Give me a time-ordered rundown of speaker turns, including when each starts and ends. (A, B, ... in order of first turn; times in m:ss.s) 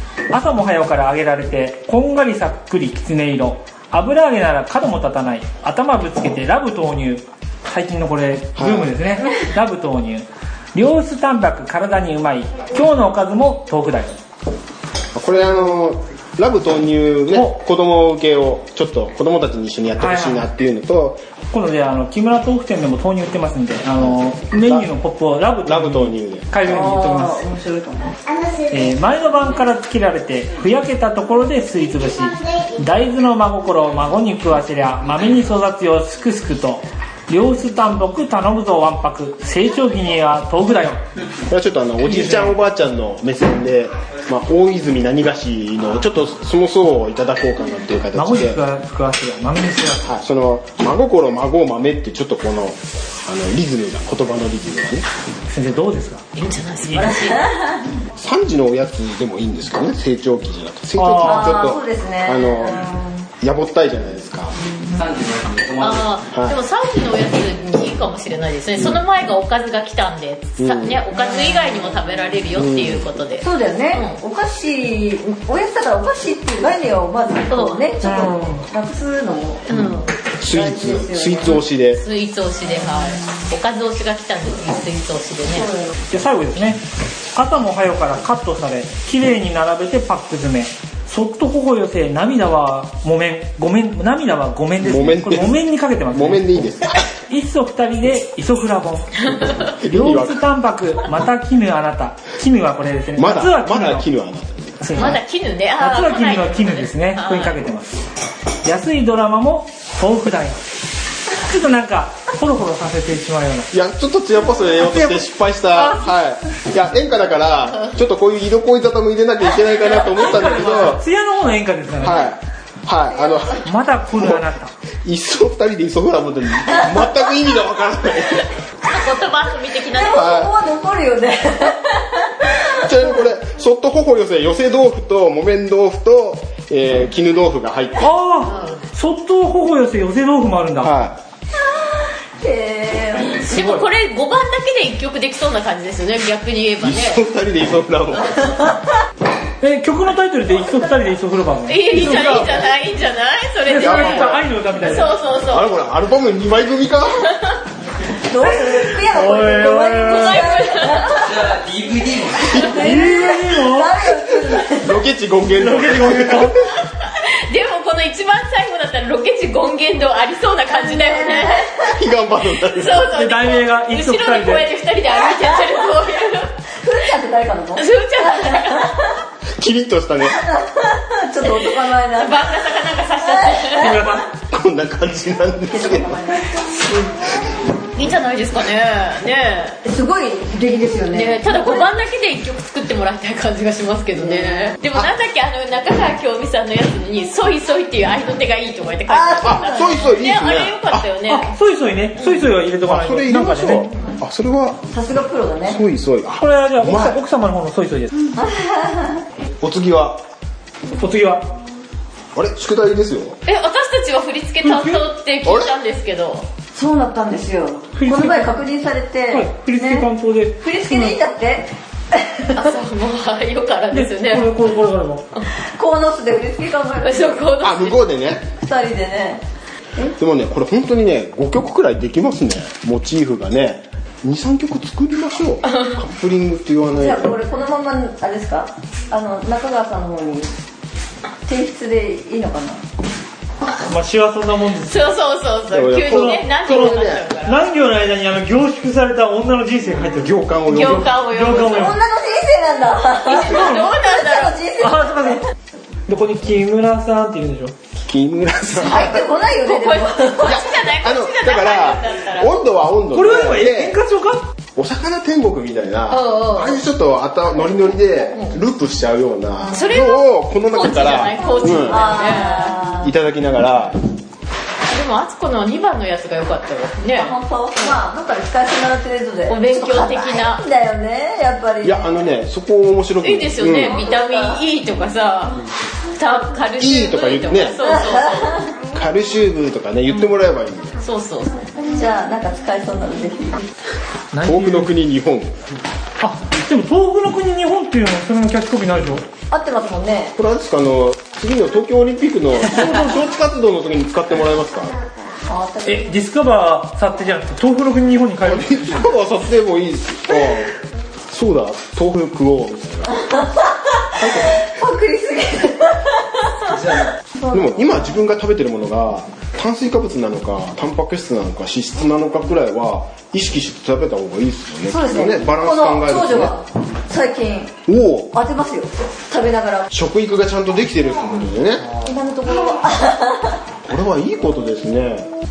0:00.3-0:14.2 A
0:08.6-0:08.9 B
0:15.1-0:21.2 B
0:20.0-0:20.5 A
0:21.5-0:27.5 A
0:24.0-0:24.9 B
0:25.6-0:26.7 B
0:26.6-0:28.2 C
0:28.7-0:41.0 A
0:41.5-0:48.6 B
0:42.0-0:42.6 A
0:48.1-0:50.1 A
0:50.0-0:55.0 B
0:55.5-0:56.2 A
0:56.4-0:57.5 D
0:56.8-0:57.1 A
0:56.9-0:57.8 C
0:58.2-1:04.6 B
1:01.0-1:01.6 A
1:01.2-1:03.2 C
1:04.9-1:06.3 E
1:05.8-1:14.2 D
1:06.3-1:06.6 B
1:08.8-1:09.0 B
1:10.6-1:11.1 B
1:11.2-1:11.9 C
1:12.5-1:13.2 B
1:13.4-1:19.7 C
1:17.5-1:17.8 D
1:18.0-1:18.6 A
1:19.7-1:20.1 D
1:19.7-1:22.0 B
1:20.4-1:21.6 C
1:21.5-1:25.7 D
1:25.6-1:25.9 C
1:26.1-1:26.8 A
1:27.4-1:44.1 A
1:34.8-1:37.0 B
1:39.6-1:40.4 B
1:43.2-1:45.2 B
1:44.8-1:45.2 A
1:44.9-1:47.6 D
1:45.8-1:48.0 A
1:48.6-1:50.6 A
1:51.3-1:53.7 A
1:53.7-2:01.0 B
1:54.8-1:56.1 A
2:00.1-2:02.3 A
2:00.2-2:00.8 D
2:02.0-2:04.4 B
2:03.6-2:04.7 A
2:05.0-2:08.5 B
2:08.8-2:10.2 D
2:09.9-2:12.8 C
2:10.1-2:10.5 B
2:12.7-2:18.1 B
2:18.0-2:20.9 A
2:18.5-2:18.8 D
2:20.8-2:21.2 B
2:22.4-2:23.6 C
2:23.4-2:27.2 D
2:23.5-2:23.9 A
2:26.8-2:28.8 B
2:29.6-2:32.6 A
2:31.7-2:35.7 D
2:32.2-2:32.6 B
2:33.7-2:34.5 B
2:33.7-2:35.2 A
2:35.3-2:37.4 B
2:38.3-2:41.6 C
2:39.0-2:40.5 A
2:40.1-2:41.2 D
2:41.2-2:42.9 E
2:42.4-2:45.0 C
2:42.6-2:44.0 A
2:44.8-2:46.8 B
2:45.5-2:46.6 A
2:47.0-2:51.8 D
2:50.7-2:51.9 C
2:51.8-2:53.1 B
2:52.6-2:56.5 D
2:53.1-2:54.6 A
2:55.5-2:55.9 C
2:56.8-2:59.2 C
2:57.8-2:58.9 D
2:59.6-3:00.4 B
3:00.2-3:04.1 C
3:01.5-3:04.0 D
3:03.7-3:04.2 A
3:04.2-3:06.6 B
3:05.6-3:07.1 C
3:08.0-3:09.8 D
3:09.8-3:11.9 C
3:11.1-3:21.5 D
3:14.1-3:14.8 C
3:19.1-3:20.0 C
3:19.4-3:21.0 B
3:21.3-3:23.8 A
3:22.8-3:24.8 B
3:24.9-3:25.8 C
3:25.7-3:27.2 B
3:26.4-3:28.1 A
3:28.4-3:29.2 C
3:29.6-3:30.2 B
3:30.9-3:31.5 A
3:32.4-3:33.4 B
3:33.5-3:36.5 D
3:34.6-3:35.0 A
3:35.4-3:35.7 B
3:36.8-3:40.1 C
3:38.0-3:38.6 A
3:39.3-3:41.2 A
3:40.6-3:42.5 C
3:42.5-3:44.7 D
3:43.9-3:45.2 A
3:45.8-3:47.5 C
3:47.0-3:48.0 D
3:47.6-3:48.5 B
3:48.5-3:49.4 C
3:50.2-3:57.3 B
3:55.7-3:55.9 D
3:56.9-4:00.5 C
4:01.5-4:02.8 C
4:03.8-4:05.1 A
4:04.9-4:07.6 D
4:05.7-4:07.3 B
4:06.0-4:06.4 A
4:07.4-4:10.3 A
4:10.0-4:11.2 B
4:10.7-4:11.9 D
4:10.9-4:12.0 A
4:11.7-4:15.4 C
4:13.2-4:14.6 D
4:13.3-4:13.9 A
4:14.8-4:15.4 A
4:16.1-4:17.7 A
4:18.0-4:19.2 B
4:18.8-4:20.5 C
4:19.6-4:22.5 D
4:20.4-4:24.0 B
4:23.1-4:24.4 A
4:24.8-4:34.0 B
4:26.1-4:26.8 D
4:29.7-4:32.8 D
4:31.4-4:33.1 C
4:34.9-4:38.0 D
4:37.0-4:42.2 C
4:39.5-4:40.6 D
4:41.8-4:44.0 B
4:43.2-4:45.6 D
4:43.8-4:44.6 C
4:46.1-4:48.7 D
4:46.8-4:47.8 B
4:47.9-4:48.5 C
4:48.9-4:51.0 B
4:51.0-4:51.6 D
4:51.8-4:53.7 C
4:54.3-4:54.9 A
4:54.4-4:55.5 B
4:56.2-4:59.2 A
4:59.5-5:00.3 C
5:00.4-5:05.0 B
5:02.6-5:03.2 A
5:05.5-5:06.2 C
5:05.8-5:08.8 A
5:08.4-5:10.7 B
5:11.3-5:13.2 B
5:14.2-5:14.7 B
5:14.2-5:17.9 C
5:16.7-5:17.1 E
5:17.5-5:26.6 B
5:24.8-5:27.8 C
5:27.9-5:28.3 B
5:28.3-5:29.9 C
5:29.9-5:31.9 B
5:32.0-5:33.6 C
5:33.8-5:35.3 B